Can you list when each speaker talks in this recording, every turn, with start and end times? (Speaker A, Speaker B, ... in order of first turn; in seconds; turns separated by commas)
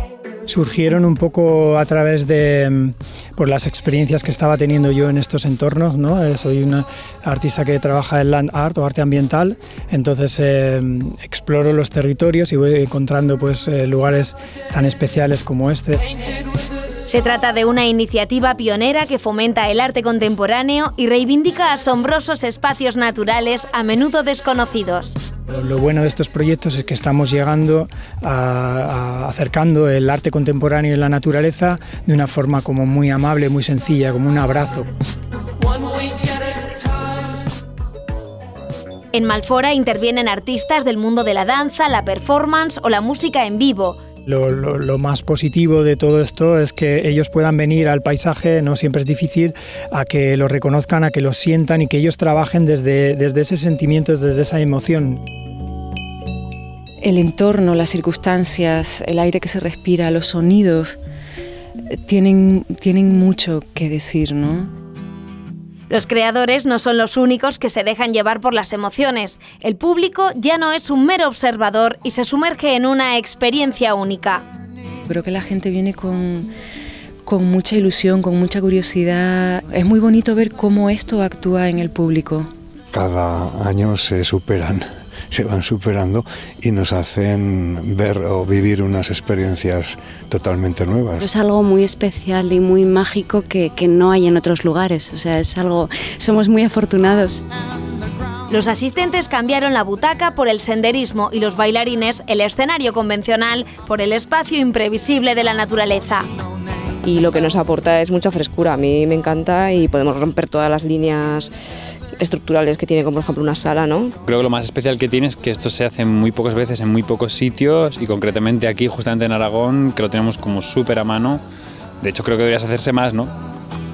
Speaker A: 0.5-16.0, Speaker B: 17.1-25.2, Speaker A: 25.5-34.9, Speaker B: 39.1-44.0, Speaker A: 44.3-55.2, Speaker C: 57.0-60.9, Speaker C: 61.9-64.7, Speaker B: 65.9-74.4, Speaker C: 75.1-76.5, Speaker C: 77.2-82.5, Speaker D: 82.9-91.3, Speaker E: 91.2-97.4, Speaker B: 98.5-106.2, Speaker F: 107.0-111.5, Speaker F: 112.2-114.1, Speaker G: 114.2-121.4, Speaker G: 122.0-123.3